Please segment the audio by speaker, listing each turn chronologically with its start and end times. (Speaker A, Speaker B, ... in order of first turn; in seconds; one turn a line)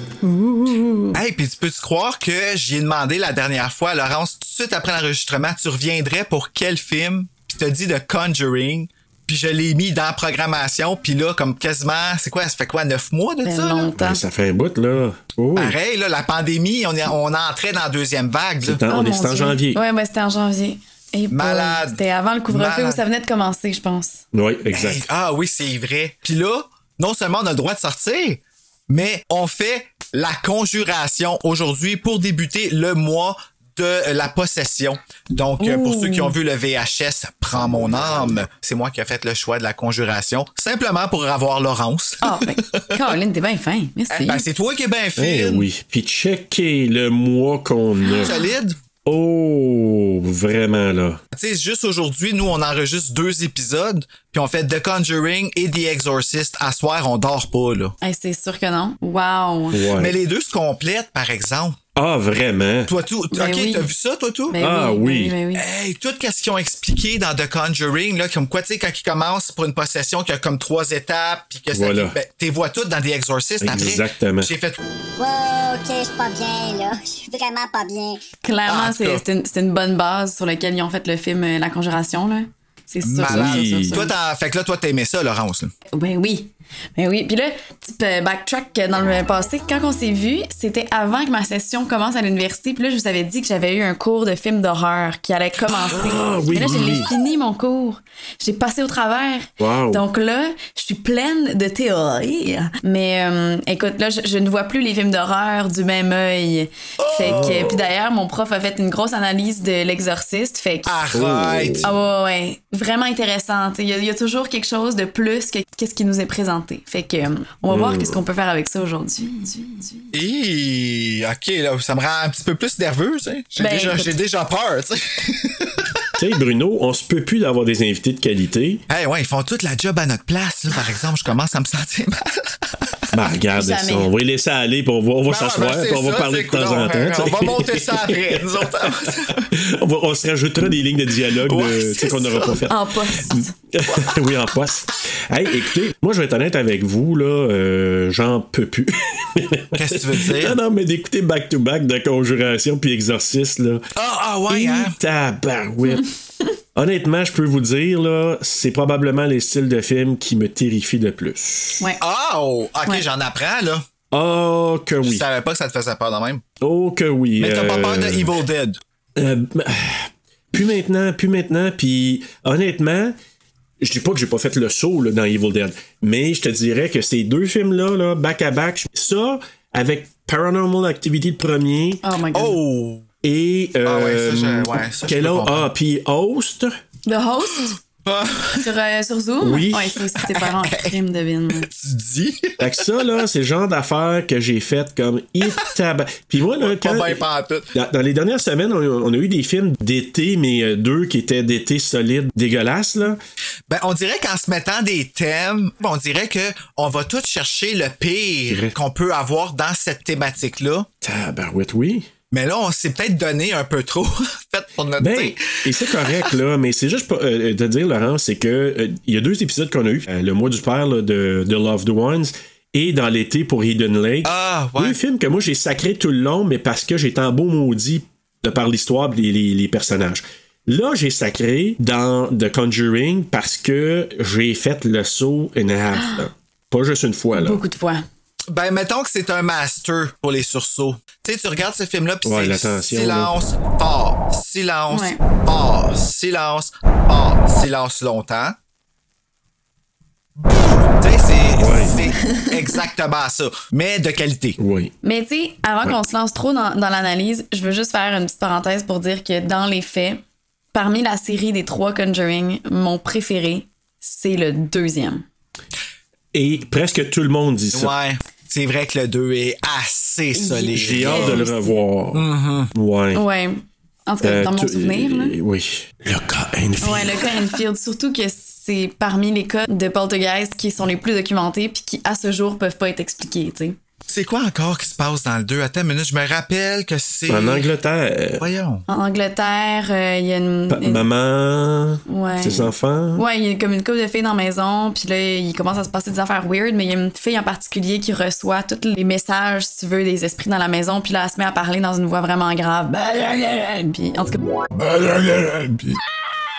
Speaker A: 0.2-1.2
Speaker B: 1.1-13.9
Speaker A: 13.4-14.2
Speaker C: 14.0-15.8
Speaker B: 15.6-18.8
Speaker C: 18.6-19.8
Speaker A: 18.9-24.2
Speaker B: 21.3-23.0
Speaker C: 24.3-25.1
Speaker B: 24.7-42.9
Speaker A: 35.6-36.3
Speaker A: 42.2-44.4
Speaker B: 44.1-45.6
Speaker C: 45.2-48.3
Speaker B: 48.2-48.8
Speaker C: 49.0-51.2
Speaker B: 51.3-57.9
Speaker A: 58.0-59.8
Speaker C: 59.7-60.1
Speaker B: 59.9-61.8
Speaker C: 62.0-62.9
Speaker B: 62.9-64.6
Speaker A: 63.3-63.9
Speaker A: 64.5-65.6
Speaker C: 64.6-65.3
Speaker B: 65.5-74.8
Speaker C: 71.7-72.2
Speaker C: 73.6-74.5
Speaker D: 75.2-78.2
Speaker A: 78.4-84.1
Speaker B: 78.7-79.2
Speaker B: 83.0-85.7
Speaker C: 83.2-84.0
Speaker A: 85.9-110.9
Speaker C: 95.7-97.1
Speaker C: 99.6-100.0
Speaker B: 107.0-107.8
Speaker C: 107.2-107.7
Speaker B: 110.8-111.9
Speaker C: 111.1-111.9
Speaker A: 111.8-120.1
Speaker C: 117.7-118.2
Speaker B: 120.1-126.0
Speaker A: 123.6-124.1
Speaker C: 126.2-128.8
Speaker B: 128.9-133.1
Speaker C: 133.1-153.8
Speaker A: 133.6-134.1
Speaker B: 135.3-139.5
Speaker B: 141.4-142.6
Speaker A: 142.7-143.5
Speaker B: 143.9-144.3
Speaker B: 149.7-150.6
Speaker B: 153.9-154.9
Speaker C: 154.5-156.1
Speaker C: 156.7-161.8
Speaker B: 162.0-163.8
Speaker C: 164.1-165.2
Speaker B: 165.0-166.4
Speaker C: 166.6-168.3
Speaker B: 167.4-168.8
Speaker C: 169.2-173.1
Speaker C: 173.8-182.0
Speaker A: 182.0-182.6
Speaker B: 182.3-183.1
Speaker C: 183.2-186.7
Speaker B: 183.8-185.7
Speaker A: 187.1-187.8
Speaker B: 187.7-188.7
Speaker A: 188.6-191.7
Speaker C: 189.4-190.0
Speaker B: 190.2-190.9
Speaker B: 191.6-192.6
Speaker C: 192.6-197.2
Speaker B: 196.5-197.7
Speaker C: 197.7-203.2
Speaker B: 203.7-210.9
Speaker C: 208.5-208.7
Speaker C: 211.0-212.1
Speaker B: 212.3-216.3
Speaker C: 215.0-237.6
Speaker B: 224.2-225.0
Speaker A: 235.9-236.2
Speaker A: 237.3-238.0
Speaker B: 238.5-248.6
Speaker C: 242.2-243.3
Speaker A: 244.9-245.2
Speaker B: 250.4-254.6
Speaker C: 251.6-252.0
Speaker C: 254.6-254.9
Speaker A: 255.0-260.2
Speaker A: 260.7-265.2
Speaker C: 266.3-267.9
Speaker B: 267.7-271.4
Speaker A: 270.3-271.7
Speaker C: 270.8-273.2
Speaker B: 272.1-272.7
Speaker A: 273.1-275.4
Speaker C: 274.2-277.3
Speaker A: 276.8-283.8
Speaker B: 284.1-287.7
Speaker C: 287.3-288.4
Speaker B: 288.4-288.8
Speaker A: 288.9-291.0
Speaker C: 290.7-293.2
Speaker A: 292.1-304.4